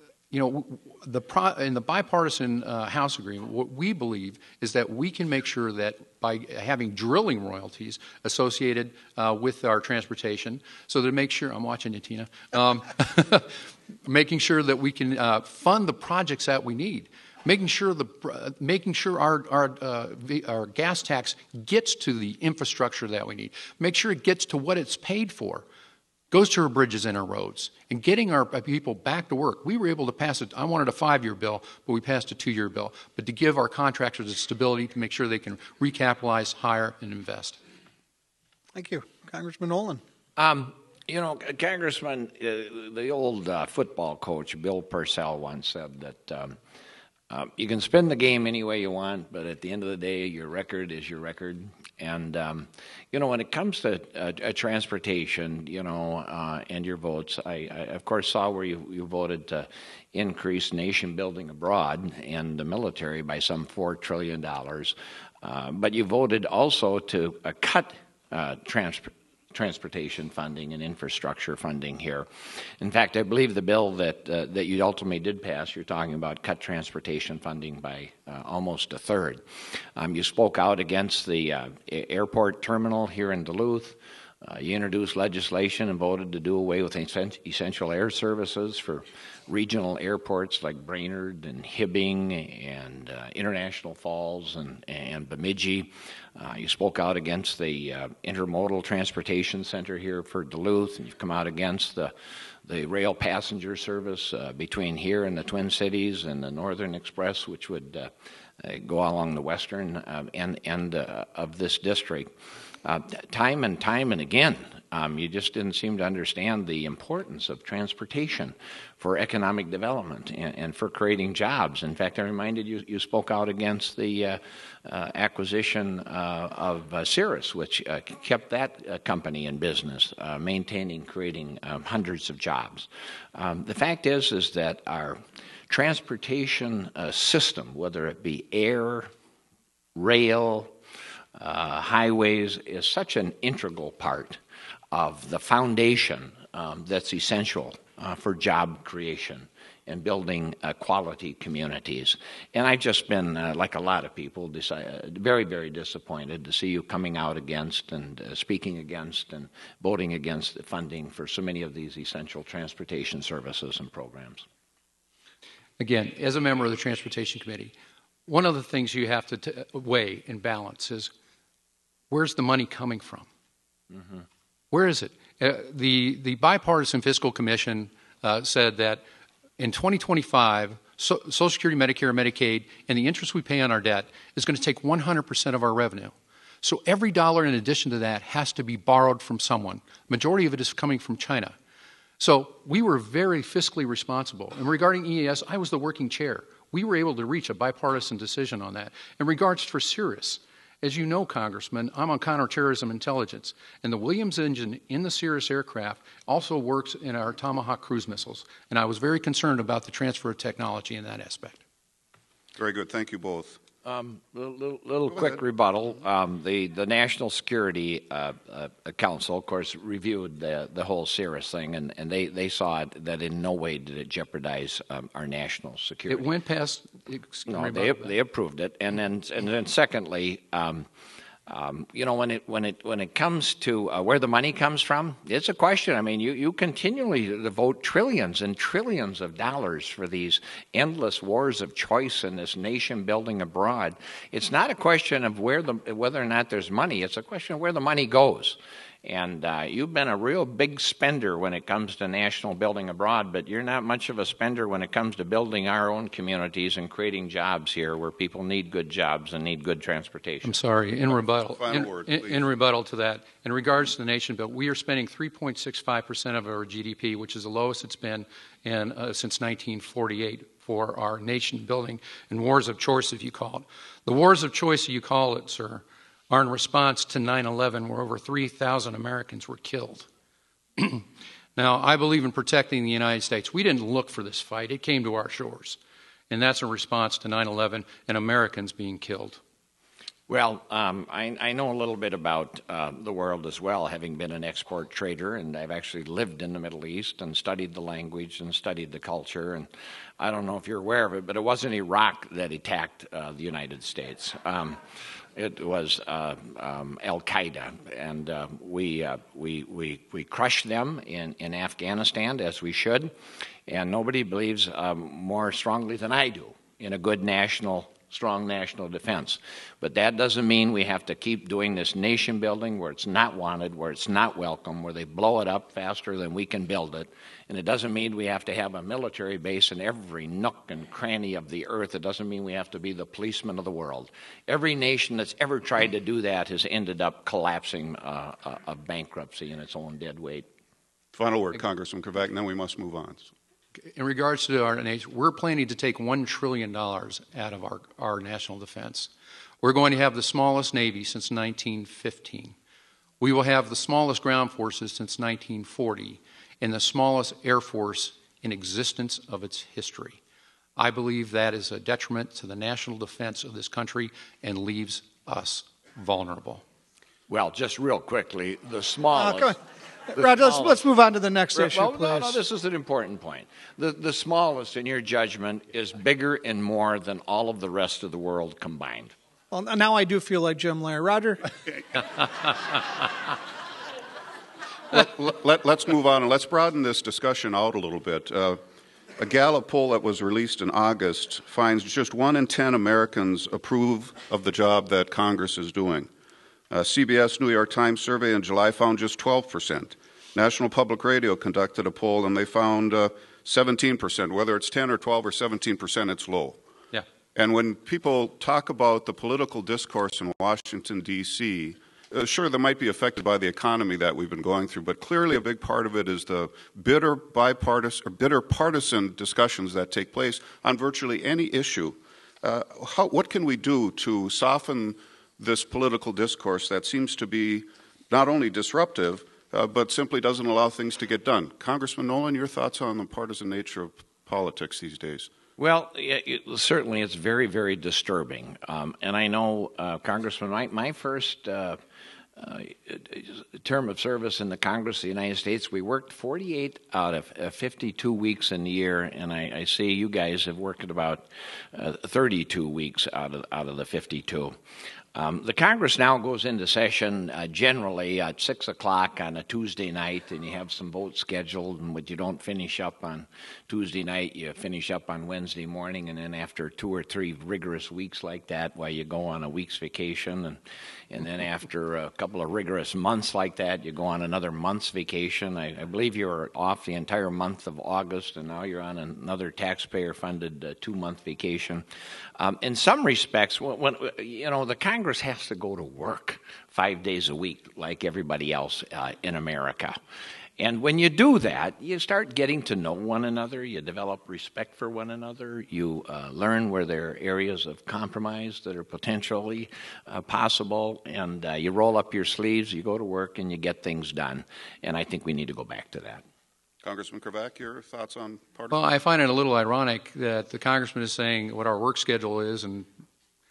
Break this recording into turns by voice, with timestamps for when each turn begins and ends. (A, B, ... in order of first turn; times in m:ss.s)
0:00.3-0:25.6 A
0:26.3-0:37.6 A
0:38.7-0:40.0 B
0:40.4-0:46.6 C
0:47.3-1:12.3 C
1:12.8-1:19.4 C
1:20.0-1:42.1 C
1:42.6-1:52.3 C
1:52.8-2:19.1 C
2:19.9-2:20.7 C
2:21.4-2:24.4 C
2:24.9-2:44.4 C
2:45.8-2:47.7 A
2:48.2-2:51.1 A
2:52.1-2:53.3 A
2:54.7-2:59.0 A
2:59.6-3:11.6 A
3:12.2-3:31.6 A
3:32.6-3:33.6 D
3:33.8-3:46.3 C
3:46.1-3:48.1 A
3:47.5-3:50.8 C
3:51.5-4:20.6 C
4:20.4-4:40.1 A
4:21.5-4:22.4 D
4:40.8-4:45.8 A
4:46.3-4:49.4 A
4:50.3-5:04.8 C
5:05.3-5:13.1 C
5:13.7-5:40.5 C
5:41.1-5:43.3 D
5:43.9-5:49.1 A
5:49.6-5:52.5 A
5:53.2-6:00.2 A
6:00.8-6:06.6 A
6:07.3-6:09.6 C
6:09.2-6:09.6 B
6:10.1-6:12.4 B
6:10.2-6:10.8 C
6:11.5-6:19.1 C
6:19.5-6:21.5 B
6:24.9-6:28.6 D
6:29.2-6:36.1 D
6:36.7-6:46.6 D
6:47.3-7:15.3 D
7:15.6-7:21.8 C
7:22.4-7:34.6 C
7:35.1-8:01.8 C
8:02.4-8:10.0 C
8:10.6-8:26.2 C
8:26.8-8:28.8 D
8:28.7-8:32.9 A